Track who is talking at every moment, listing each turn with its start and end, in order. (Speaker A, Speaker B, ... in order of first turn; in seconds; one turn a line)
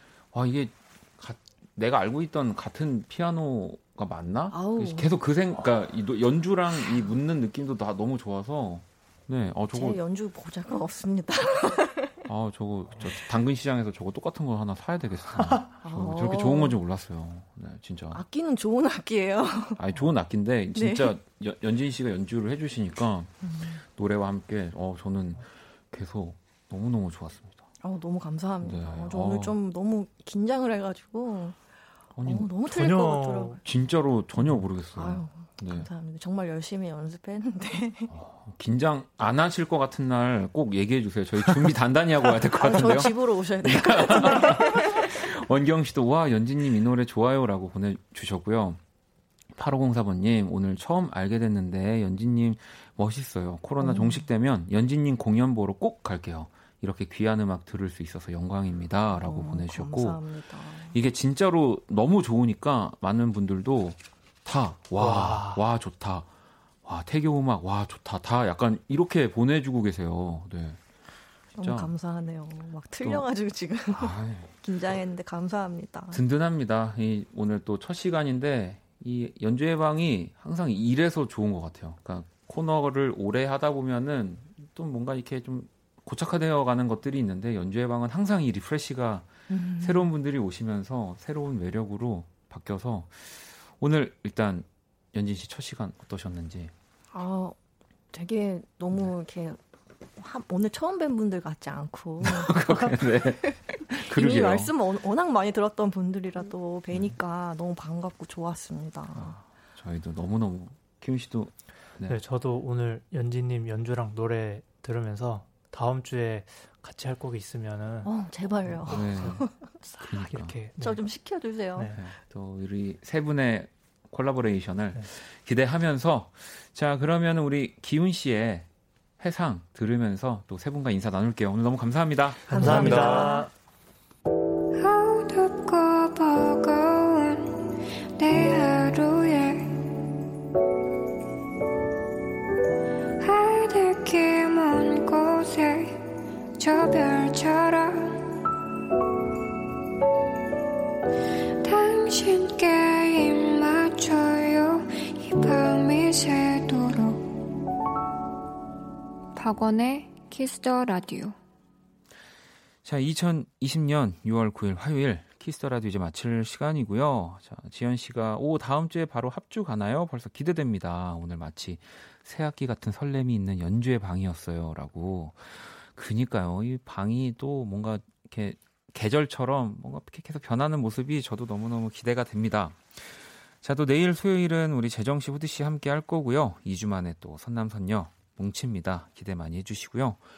Speaker A: 0.3-10.0
Speaker B: 4.5-5.2
Speaker B: 9.7-12.2
Speaker A: 12.3-18.2
Speaker B: 15.8-16.8
Speaker B: 18.1-19.8
Speaker A: 19.8-23.3
Speaker B: 20.8-21.1
Speaker B: 23.4-23.8
Speaker A: 23.9-27.7
Speaker B: 27.8-31.6
Speaker A: 28.6-29.6
Speaker A: 32.2-32.5
Speaker B: 32.2-33.6
Speaker C: 32.7-33.6
Speaker A: 33.6-35.9
Speaker B: 34.9-38.1
Speaker A: 38.1-48.8
Speaker B: 42.5-45.1
Speaker A: 49.6-60.2
Speaker B: 53.8-54.3
Speaker B: 59.2-61.0
Speaker A: 60.9-66.3
Speaker C: 65.0-65.6
Speaker A: 66.8-70.8
Speaker B: 71.5-76.2
Speaker A: 71.6-71.9
Speaker A: 73.0-73.3
Speaker A: 73.9-74.5
Speaker A: 76.1-96.7
Speaker B: 89.5-90.1
Speaker B: 97.1-97.6
Speaker B: 98.1-99.6
Speaker B: 100.2-109.4
Speaker A: 102.2-104.8
Speaker A: 109.2-112.2
Speaker C: 112.1-118.1
Speaker B: 118.0-119.7
Speaker C: 118.7-121.0
Speaker A: 118.9-119.4
Speaker A: 120.0-120.6
Speaker B: 120.8-122.0
Speaker A: 121.9-128.7
Speaker A: 129.2-133.3
Speaker C: 132.5-133.5
Speaker B: 132.5-133.5
Speaker D: 134.8-137.6
Speaker D: 138.2-139.7
Speaker D: 143.2-146.0
Speaker D: 146.6-148.2
Speaker D: 151.6-157.2
Speaker D: 159.4-161.4
Speaker A: 162.8-190.2